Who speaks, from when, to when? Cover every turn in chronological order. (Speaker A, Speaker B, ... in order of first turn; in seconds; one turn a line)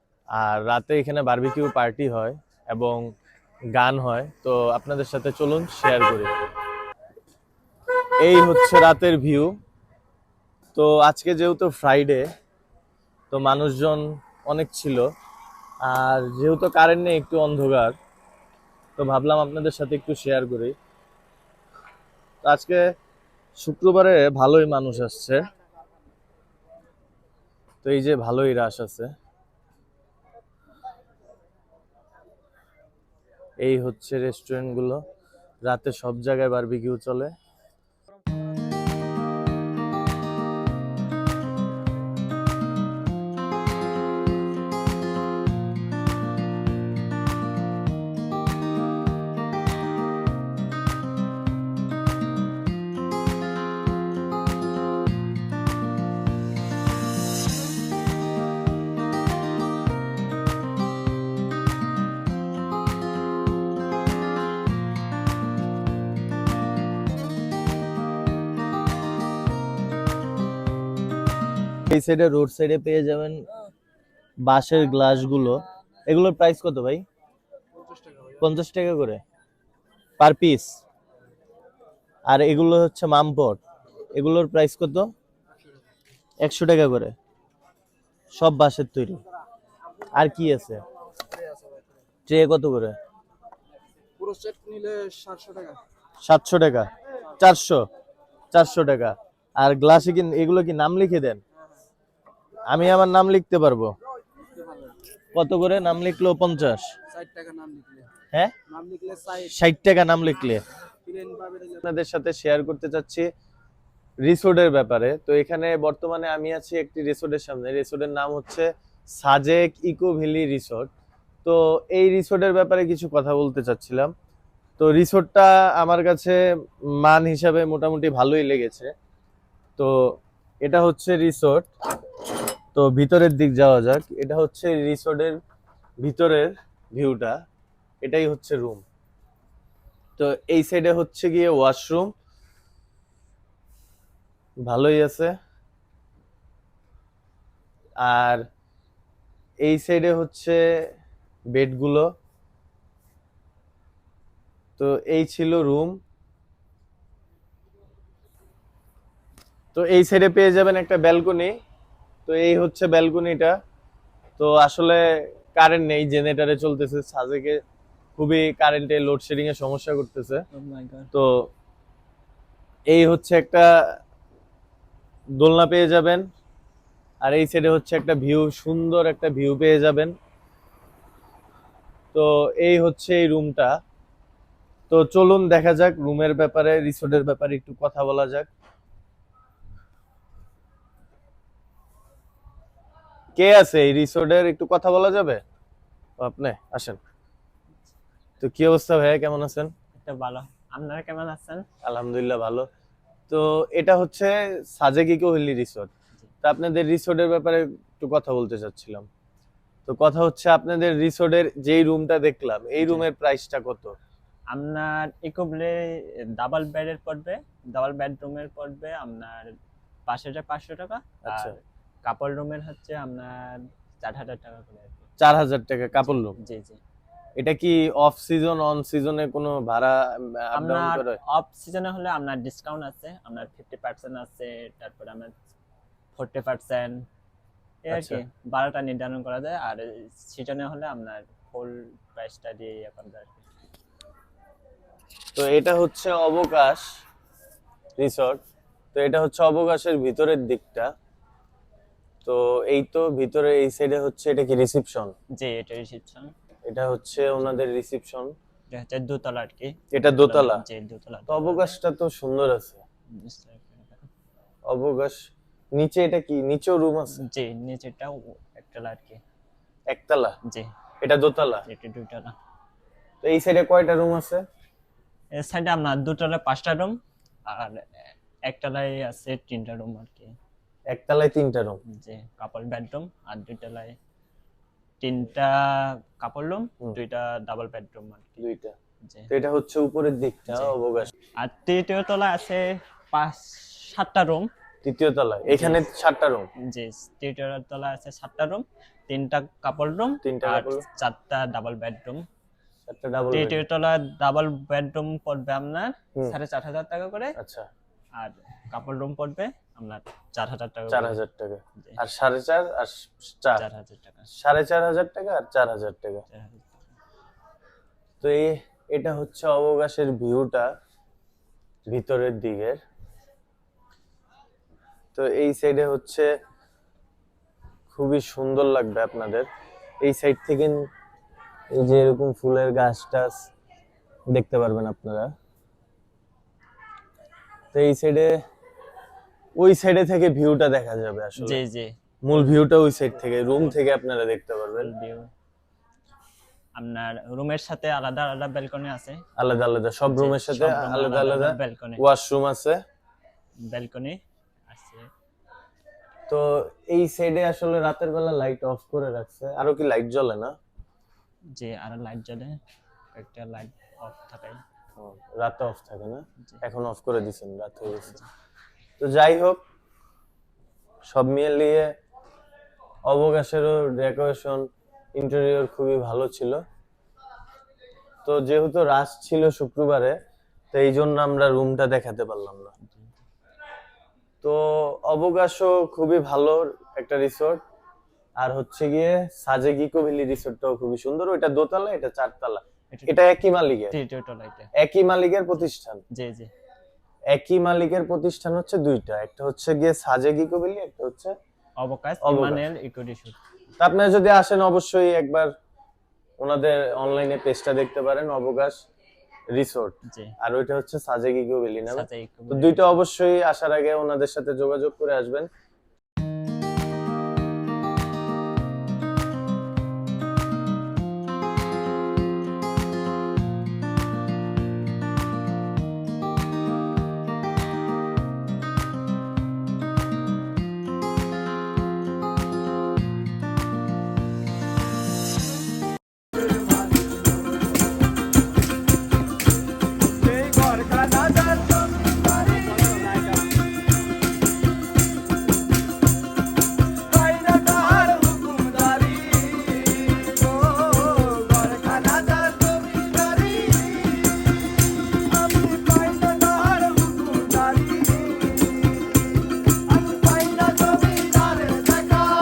Speaker A: 0.4-3.0
Speaker A: 3.7-6.3
Speaker A: 8.2-9.5
Speaker A: 10.7-12.2
Speaker A: 13.3-15.1
Speaker A: 15.8-17.9
Speaker A: 19.0-20.7
Speaker A: 22.4-22.8
Speaker A: 23.6-25.5
Speaker A: 27.8-29.1
Speaker A: 33.6-35.0
Speaker A: 35.7-37.3
Speaker A: 71.9-73.4
Speaker A: 74.5-77.0
Speaker A: 78.4-79.2
Speaker A: 80.2-80.8
Speaker A: 82.3-83.6
Speaker A: 84.2-85.1
Speaker A: 86.4-87.1
Speaker A: 88.3-89.2
Speaker A: 90.1-90.8
Speaker A: 92.3-92.9
Speaker B: 94.2-95.8
Speaker A: 96.2-97.8
Speaker A: 98.5-101.4
Speaker A: 102.7-103.9
Speaker A: 105.3-106.9
Speaker B: 107.3-108.0
Speaker A: 109.3-110.6
Speaker A: 111.8-113.3
Speaker A: 114.2-120.9
Speaker A: 121.4-124.1
Speaker A: 124.8-126.4
Speaker A: 127.0-128.9
Speaker A: 130.6-131.7
Speaker A: 132.7-135.4
Speaker A: 136.0-137.4
Speaker A: 138.0-138.8
Speaker A: 140.2-142.1
Speaker A: 144.7-145.3
Speaker A: 148.0-148.4
Speaker A: 149.6-150.6
Speaker A: 151.5-152.1
Speaker A: 154.8-156.0
Speaker A: 159.7-161.5
Speaker A: 162.2-163.5
Speaker A: 164.4-167.6
Speaker A: 168.2-170.4
Speaker C: 170.5-171.1
Speaker A: 171.1-171.5
Speaker A: 172.9-173.9
Speaker A: 175.4-176.2
Speaker A: 177.2-180.1
Speaker A: 182.1-183.7
Speaker A: 184.9-188.5
Speaker A: 193.4-195.4
Speaker A: 196.2-197.0
Speaker A: 198.4-199.7
Speaker C: 199.9-201.7
Speaker A: 201.8-202.7
Speaker A: 203.3-205.9
Speaker A: 206.4-209.1
Speaker A: 209.8-213.9
Speaker C: 212.8-213.1
Speaker C: 214.5-219.5
Speaker C: 220.1-225.1
Speaker A: 221.2-221.6
Speaker A: 225.2-226.3
Speaker C: 226.1-226.8
Speaker A: 227.4-231.2
Speaker C: 230.5-235.3
Speaker C: 236.2-237.0
Speaker C: 237.8-243.5
Speaker A: 237.9-238.2
Speaker A: 245.3-246.8
Speaker A: 248.0-248.4
Speaker A: 248.9-250.9
Speaker A: 252.2-255.1
Speaker C: 255.3-256.3
Speaker A: 256.7-258.3
Speaker C: 257.2-257.5
Speaker C: 258.7-261.8
Speaker A: 259.9-260.6
Speaker A: 261.3-262.8
Speaker C: 263.1-264.1
Speaker A: 264.7-265.2
Speaker A: 265.7-267.2
Speaker C: 267.2-269.2
Speaker A: 269.9-270.4
Speaker C: 270.5-270.7
Speaker A: 271.0-271.6
Speaker C: 271.7-272.4
Speaker A: 273.2-274.4
Speaker C: 275.3-280.3
Speaker A: 280.9-281.8
Speaker C: 281.9-283.9
Speaker C: 285.0-288.4
Speaker A: 288.4-288.8
Speaker C: 289.0-289.3
Speaker A: 289.3-291.1
Speaker C: 290.5-294.5
Speaker A: 294.8-296.5
Speaker C: 295.5-295.8
Speaker C: 296.7-302.2
Speaker A: 300.2-300.8
Speaker A: 302.9-303.6
Speaker C: 303.3-307.3
Speaker A: 307.4-307.7
Speaker C: 308.2-311.2
Speaker A: 310.9-313.6
Speaker C: 313.6-314.3
Speaker A: 314.4-316.2
Speaker C: 316.3-316.9
Speaker A: 318.2-320.7
Speaker A: 321.9-322.8
Speaker A: 325.1-326.3
Speaker A: 327.9-329.5
Speaker A: 330.0-330.8
Speaker A: 331.7-333.4
Speaker A: 334.3-335.3
Speaker A: 337.7-338.3
Speaker A: 339.6-341.6
Speaker C: 341.4-341.9
Speaker A: 342.2-344.9
Speaker C: 343.5-343.8
Speaker C: 344.8-345.3
Speaker C: 346.8-349.2
Speaker A: 349.4-352.8
Speaker C: 350.1-352.0
Speaker C: 353.6-355.1
Speaker A: 356.3-360.5
Speaker C: 361.5-362.6
Speaker C: 363.1-364.6
Speaker A: 365.0-368.2
Speaker C: 367.9-368.3
Speaker A: 369.0-369.6
Speaker A: 371.1-371.9
Speaker A: 373.1-376.6
Speaker A: 378.2-380.1
Speaker A: 380.7-382.7
Speaker C: 382.8-383.2
Speaker A: 384.4-387.6
Speaker A: 388.4-393.9
Speaker C: 392.9-393.2
Speaker C: 393.9-394.7
Speaker A: 394.8-396.0
Speaker C: 396.1-396.5
Speaker A: 397.3-401.3
Speaker C: 401.8-403.4
Speaker A: 402.2-402.6
Speaker A: 403.8-405.5
Speaker A: 406.4-408.8
Speaker A: 409.5-415.5
Speaker C: 410.1-410.4
Speaker C: 411.9-412.9
Speaker A: 441.2-441.4
Speaker C: 442.6-442.9
Speaker A: 447.3-449.4
Speaker A: 450.9-451.4
Speaker A: 451.9-453.5
Speaker B: 455.7-456.4
Speaker B: 457.2-458.3